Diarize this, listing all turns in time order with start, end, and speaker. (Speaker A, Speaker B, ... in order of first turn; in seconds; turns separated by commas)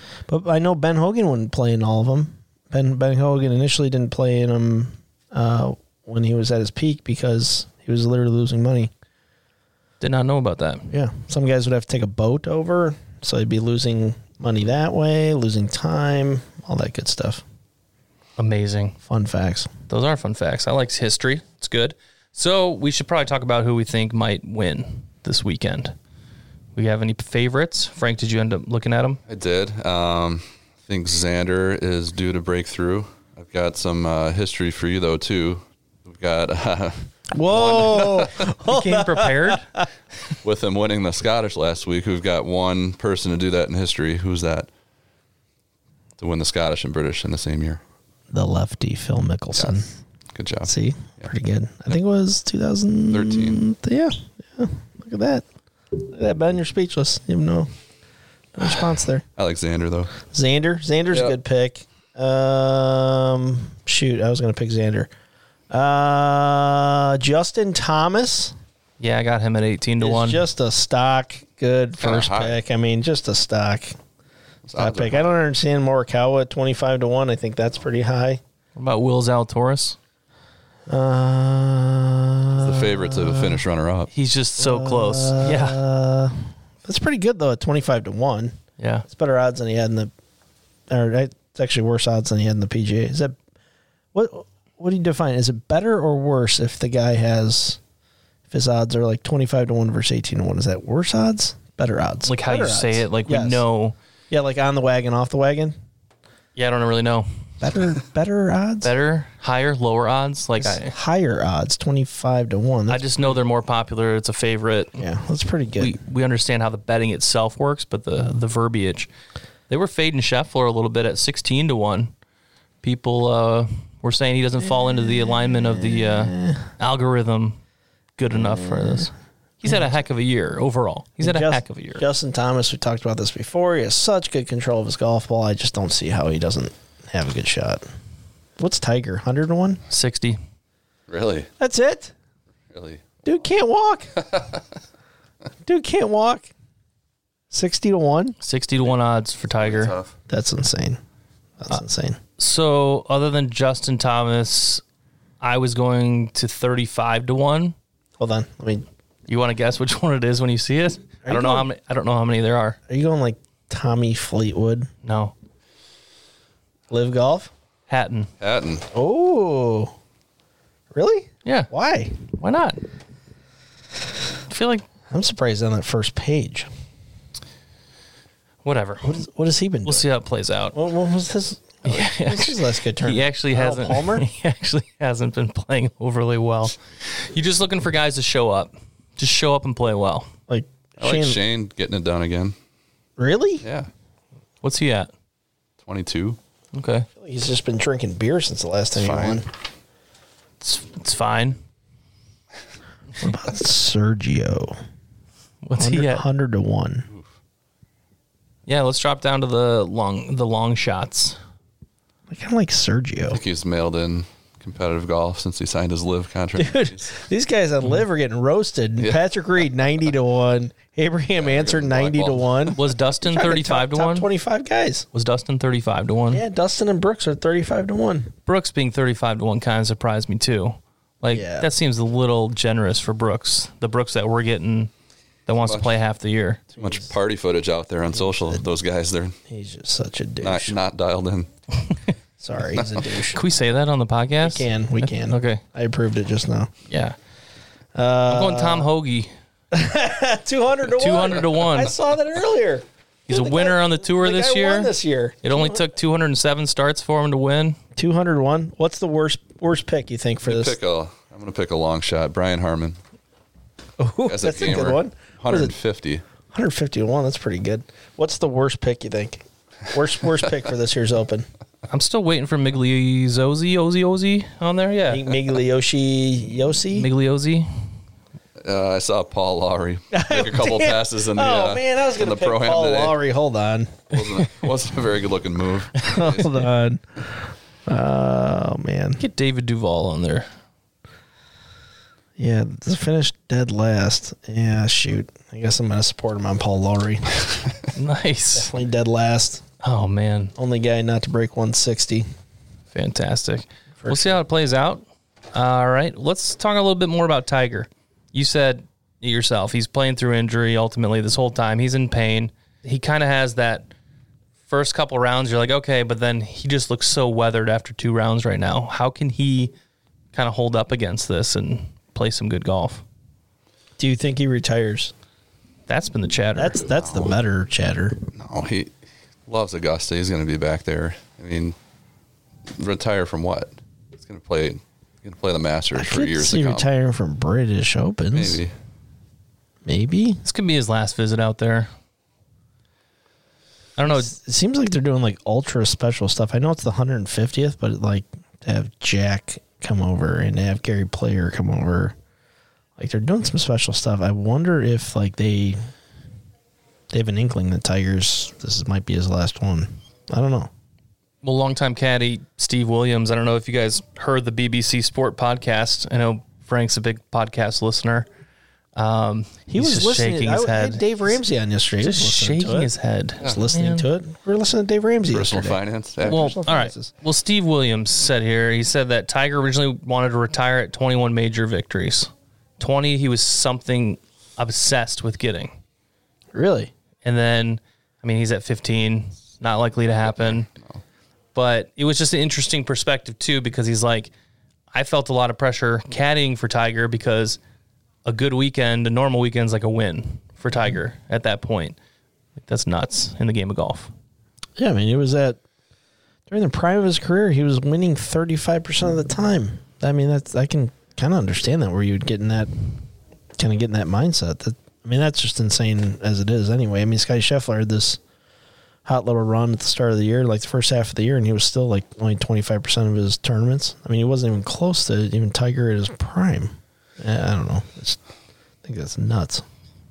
Speaker A: 0.3-8.9, Speaker B: 10.0-10.9, Speaker A: 10.9-17.4, Speaker B: 18.4-19.0, Speaker A: 19.1-19.7, Speaker B: 19.9-25.9, Speaker B: 26.8-29.2, Speaker C: 29.3-38.5, Speaker A: 37.3-39.9, Speaker B: 38.6-39.7, Speaker C: 40.4-44.7, Speaker C: 46.2-47.8, Speaker A: 48.3-49.9, Speaker C: 50.4-51.3, Speaker A: 50.7-57.7, Speaker C: 53.1-53.6, Speaker A: 58.5-59.2, Speaker C: 59.4-60.1, Speaker A: 60.3-65.1, Speaker A: 65.7-68.5, Speaker B: 69.0-70.4, Speaker A: 70.0-74.0, Speaker C: 72.0-72.6, Speaker C: 74.7-75.3, Speaker A: 74.8-78.4, Speaker B: 78.8-80.0, Speaker A: 80.9-83.6, Speaker C: 82.5-84.1, Speaker B: 84.1-85.8, Speaker A: 84.6-88.6, Speaker B: 88.8-89.0, Speaker A: 89.1-90.1, Speaker A: 90.9-93.4, Speaker A: 94.1-97.8, Speaker A: 98.5-103.6, Speaker B: 102.3-104.0, Speaker A: 104.3-105.7, Speaker B: 106.6-107.3, Speaker A: 107.6-108.9, Speaker B: 108.8-110.9, Speaker A: 110.6-113.1, Speaker B: 112.9-115.0, Speaker A: 115.0-116.0, Speaker B: 115.8-119.1, Speaker B: 119.7-122.1, Speaker B: 122.8-127.6, Speaker A: 124.7-126.7, Speaker B: 128.2-132.0, Speaker A: 128.3-129.1, Speaker A: 131.2-137.8, Speaker A: 138.6-139.8, Speaker B: 139.9-140.4, Speaker C: 141.1-141.5, Speaker A: 141.6-142.1, Speaker C: 142.7-143.3, Speaker A: 143.2-144.2, Speaker C: 144.2-144.6, Speaker A: 145.7-146.5, Speaker A: 147.5-148.4, Speaker B: 148.4-149.9, Speaker C: 149.6-150.1, Speaker A: 150.3-151.0, Speaker A: 151.6-152.2, Speaker B: 152.4-154.8, Speaker B: 155.4-157.8, Speaker A: 158.2-158.8, Speaker B: 159.3-162.8, Speaker A: 161.2-161.7, Speaker A: 162.9-164.9, Speaker B: 165.0-165.3, Speaker A: 166.9-167.5, Speaker B: 167.9-168.3, Speaker C: 168.4-168.9, Speaker A: 168.9-169.9, Speaker A: 170.9-172.2, Speaker B: 172.3-172.8, Speaker B: 174.5-174.9, Speaker A: 175.1-176.7, Speaker B: 178.6-179.2, Speaker A: 179.0-180.1, Speaker B: 179.8-180.8, Speaker A: 180.7-184.2, Speaker B: 181.8-190.3, Speaker A: 190.5-191.4, Speaker C: 191.0-192.6, Speaker A: 193.2-193.6, Speaker C: 193.6-193.9, Speaker B: 194.6-195.1, Speaker C: 195.8-196.4, Speaker B: 196.7-197.1, Speaker A: 197.2-199.5, Speaker C: 198.9-199.5, Speaker B: 200.6-201.6, Speaker A: 203.2-204.8, Speaker B: 205.6-206.2, Speaker A: 205.8-207.1, Speaker B: 208.7-211.4, Speaker A: 212.3-213.4, Speaker C: 213.3-217.2, Speaker A: 216.6-225.1, Speaker C: 221.4-222.8, Speaker B: 222.8-224.3, Speaker B: 225.1-226.4, Speaker A: 226.3-228.3, Speaker B: 228.5-234.9, Speaker A: 231.3-231.7, Speaker B: 235.5-236.6, Speaker C: 235.7-235.9, Speaker A: 236.8-237.1, Speaker C: 236.8-239.4, Speaker A: 238.1-238.7, Speaker A: 239.5-240.8, Speaker C: 240.4-241.5, Speaker A: 242.4-243.4, Speaker C: 242.7-243.0, Speaker B: 243.3-245.6, Speaker A: 244.4-246.7, Speaker B: 246.9-247.2, Speaker A: 247.9-248.9, Speaker B: 248.3-249.3, Speaker A: 249.7-255.8, Speaker B: 251.0-251.9, Speaker B: 253.3-254.9, Speaker B: 255.4-257.8, Speaker A: 258.0-260.8, Speaker C: 260.4-263.0, Speaker A: 264.0-265.7, Speaker C: 264.3-266.2, Speaker A: 266.5-271.5, Speaker B: 271.9-275.3, Speaker A: 275.1-277.1, Speaker B: 276.9-277.7, Speaker C: 278.6-283.2, Speaker A: 280.1-284.4, Speaker C: 284.1-286.5, Speaker A: 286.0-289.2, Speaker B: 289.2-290.5, Speaker A: 292.4-297.6, Speaker B: 297.9-298.7, Speaker A: 298.6-299.6, Speaker B: 299.8-300.5, Speaker A: 300.6-302.3, Speaker B: 302.9-313.9, Speaker A: 304.0-304.4, Speaker B: 314.7-319.7, Speaker B: 320.3-323.0, Speaker A: 324.0-325.1, Speaker B: 325.9-326.9, Speaker A: 326.6-328.2, Speaker C: 327.1-327.3, Speaker C: 328.3-328.9, Speaker C: 329.5-331.8, Speaker C: 332.8-336.9, Speaker A: 335.9-338.6, Speaker C: 338.3-338.7, Speaker A: 339.9-340.4, Speaker B: 340.4-341.9, Speaker B: 344.0-344.3, Speaker A: 344.1-352.1, Speaker A: 353.0-355.8, Speaker A: 357.1-360.7, Speaker B: 361.4-368.3, Speaker B: 369.0-371.1, Speaker A: 369.7-372.9, Speaker B: 372.0-374.1, Speaker A: 373.4-377.1, Speaker C: 375.3-376.5, Speaker B: 376.3-385.8, Speaker A: 386.5-386.9, Speaker B: 387.2-390.7, Speaker C: 390.3-391.0, Speaker B: 391.6-394.3, Speaker B: 394.9-397.6, Speaker B: 398.2-402.0, Speaker B: 402.6-404.1, Speaker A: 404.8-405.6, Speaker A: 406.5-412.7, Speaker A: 413.6-418.2, Speaker A: 419.1-428.2, Speaker A: 428.8-429.6